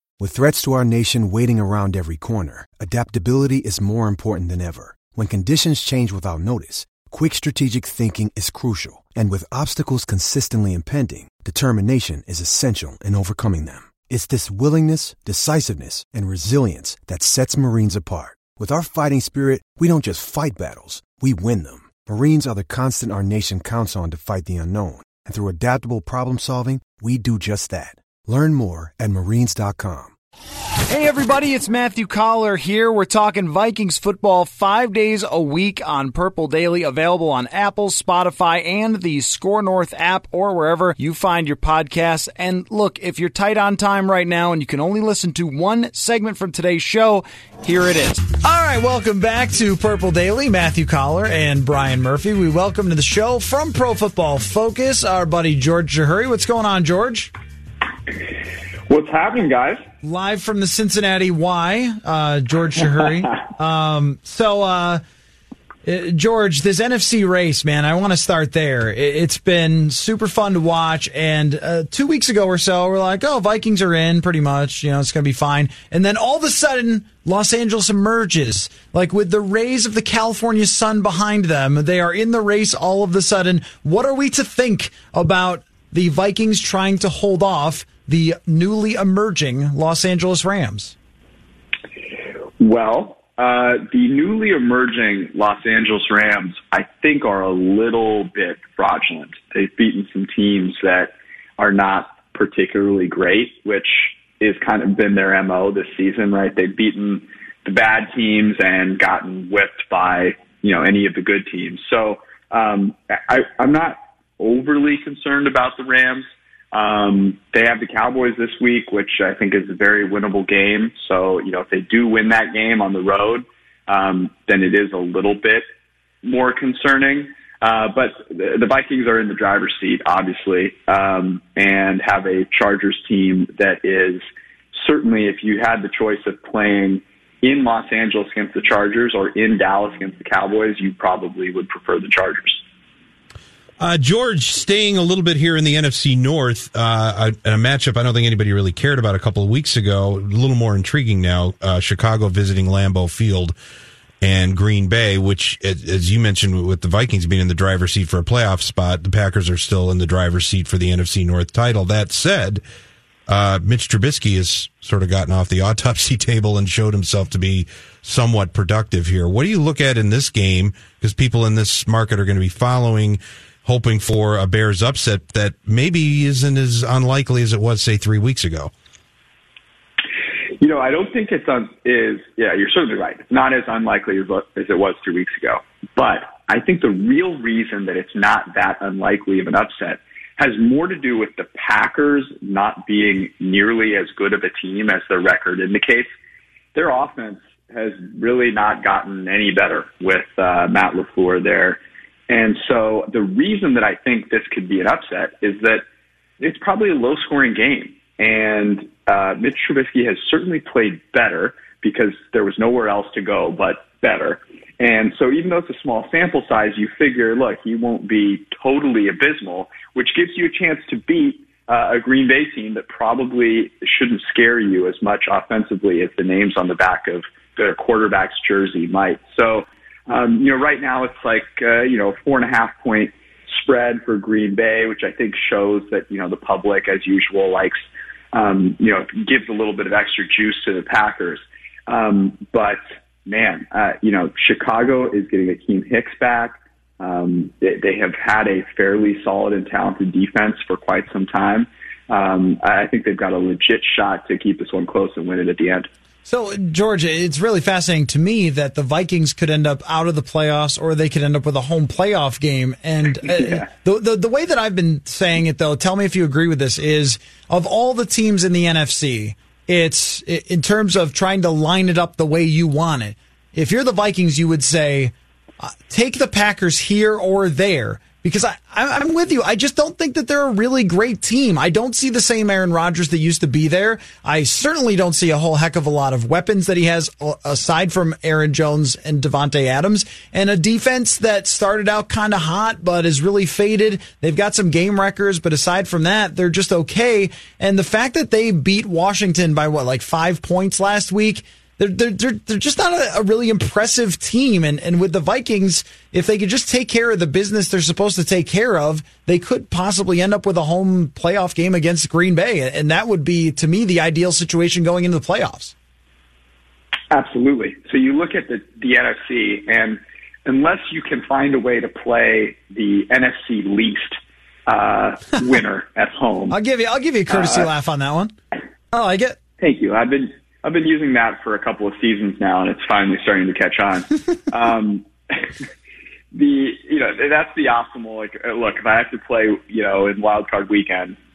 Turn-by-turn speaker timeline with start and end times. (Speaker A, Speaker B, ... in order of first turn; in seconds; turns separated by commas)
Speaker A: 0.2-30.1, Speaker B: 30.9-57.3, Speaker C: 58.9-59.9, Speaker B: 60.0-65.0, Speaker B: 65.8-90.9, Speaker C: 92.6-125.7, Speaker C: 126.2-142.6, Speaker D: 143.8-153.6, Speaker D: 154.2-162.6, Speaker D: 163.3-178.7, Speaker C: 180.6-196.1, Speaker C: 196.8-205.8, Speaker C: 206.4-237.8, Speaker C: 238.3-255.9, Speaker B: 256.3-315.7, Speaker C: 317.1-326.6, Speaker B: 326.5-328.3, Speaker C: 327.3-327.7, Speaker B: 328.9-329.4, Speaker C: 329.6-335.5, Speaker C: 336.3-341.2